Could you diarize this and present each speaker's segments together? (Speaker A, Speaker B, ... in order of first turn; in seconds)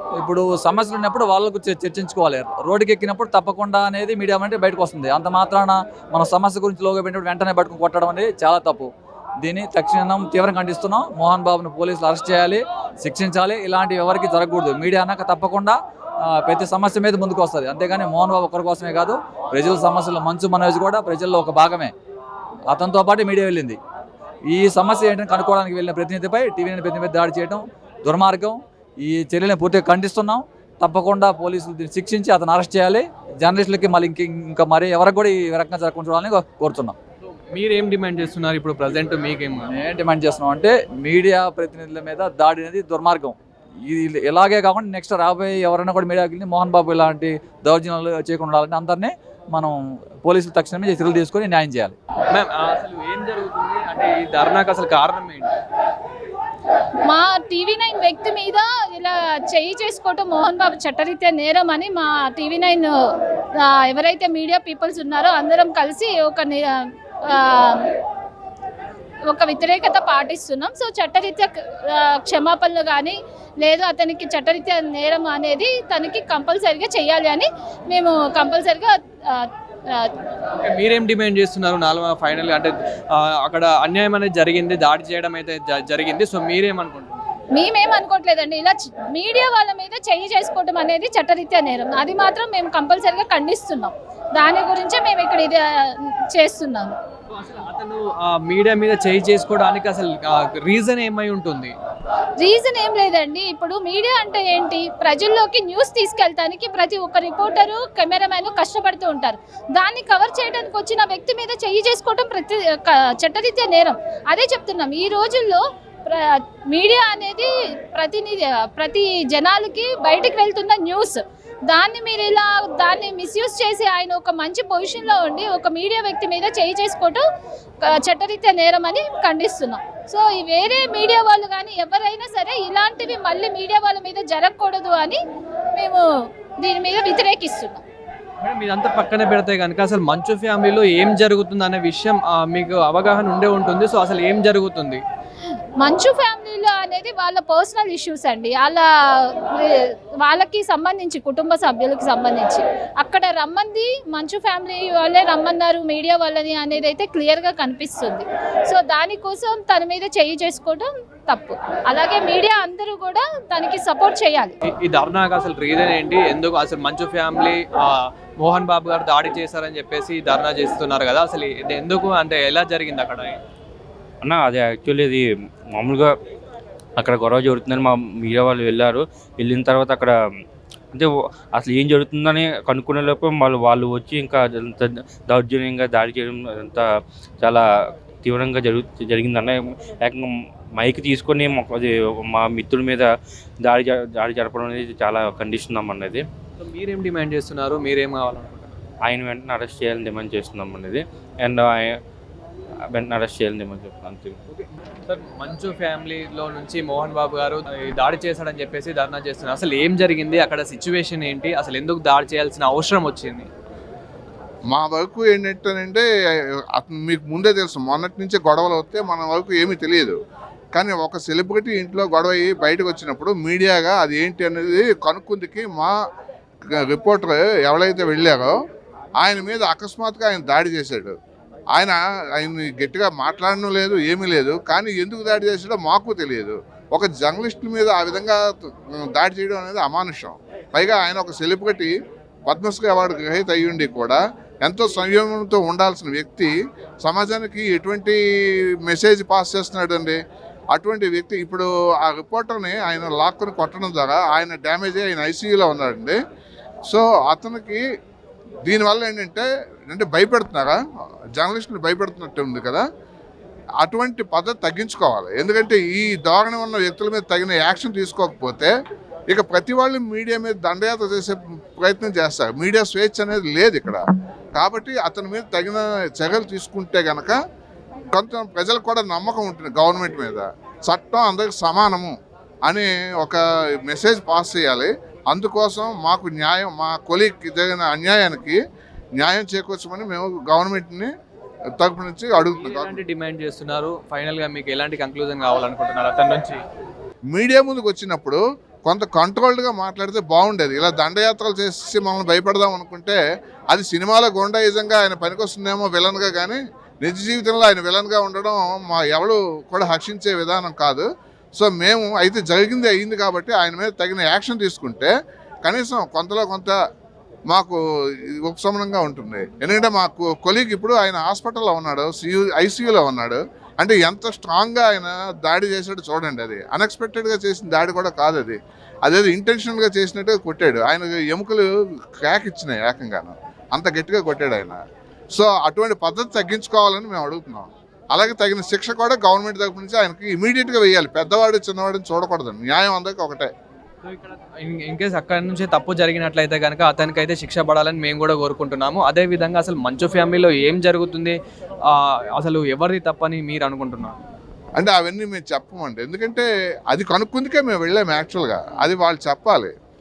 Speaker A: 0.2-8.9, 9.4-21.9, 22.7-23.8, 24.5-37.0, 39.7-52.0
Speaker B: 37.3-39.7, 52.3-55.5, 80.6-87.2, 97.3-101.7, 138.4-145.0, 164.7-173.4, 196.6-198.7, 204.5-213.5, 292.4-296.6, 344.0-354.2
Speaker C: 57.1-63.0, 63.6-67.8, 69.3-80.1, 87.6-97.0, 102.4-127.2, 127.8-135.2, 135.8-136.1, 136.6-137.8, 145.8-164.6
Speaker D: 174.2-176.1, 177.0-180.1, 180.9-186.9, 187.4-187.7, 188.2-193.1, 193.6-196.2, 199.1-201.9, 202.9-204.4
Speaker E: 214.7-216.1, 216.8-220.2, 220.8-225.9, 226.8-228.5, 229.2-231.2, 231.8-241.9, 242.5-246.5, 247.0-248.2, 248.9-250.2, 250.7-256.2, 256.9-257.8, 258.7-260.8, 261.4-262.8, 263.8-268.7, 269.3-277.4, 278.1-282.1, 282.7-288.6, 289.2-291.1, 291.8-293.0, 297.3-303.2, 303.7-315.1, 315.6-316.8, 317.5-317.8, 318.4-331.7, 332.2-334.8, 335.4-343.5, 354.8-359.7